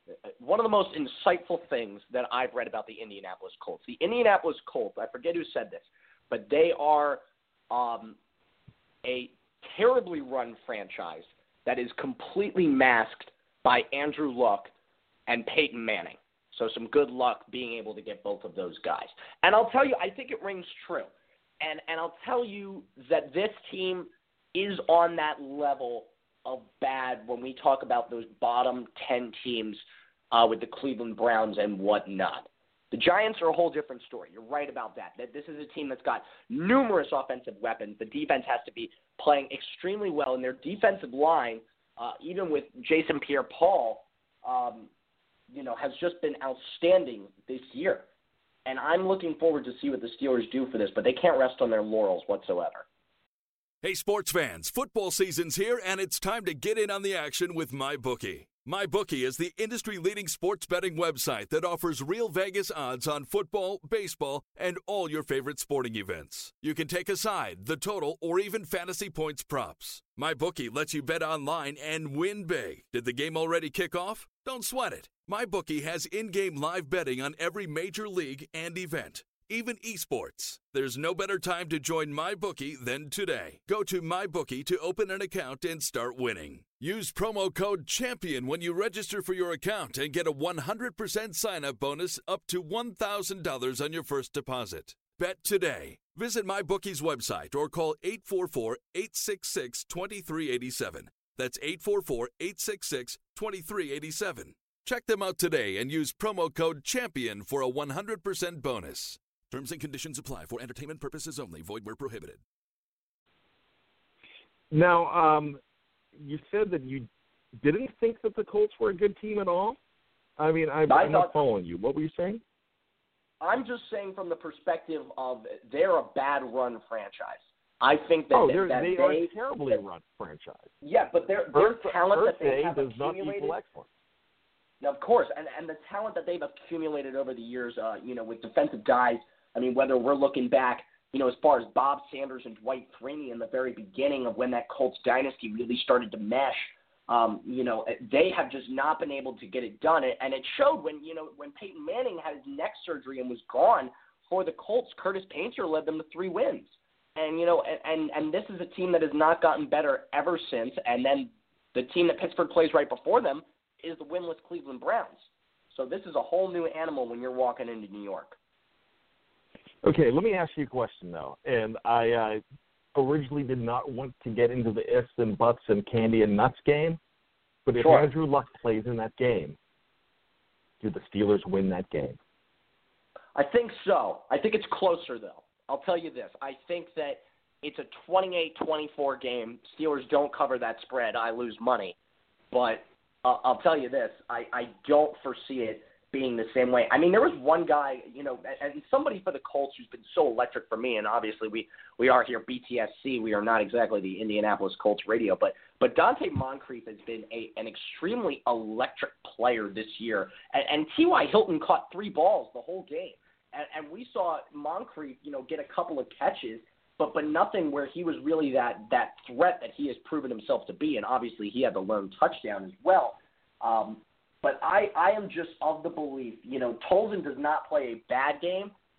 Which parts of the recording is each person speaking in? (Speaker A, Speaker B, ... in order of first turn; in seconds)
Speaker A: 0.4-8.2, 9.0-14.7, 15.3-29.8, 30.3-44.9, 45.5-48.0, 48.6-52.9, 120.9-121.3, 123.4-129.3, 130.8-133.6, 134.8-168.3, 177.8-178.1, 183.3-191.9, 192.5-228.7
Speaker B: 53.8-112.4
Speaker C: 114.7-115.6, 116.2-119.8, 120.4-122.4, 128.3-130.7, 131.5-133.9, 169.8-172.4, 172.9-177.0, 177.7-179.6, 180.8-182.2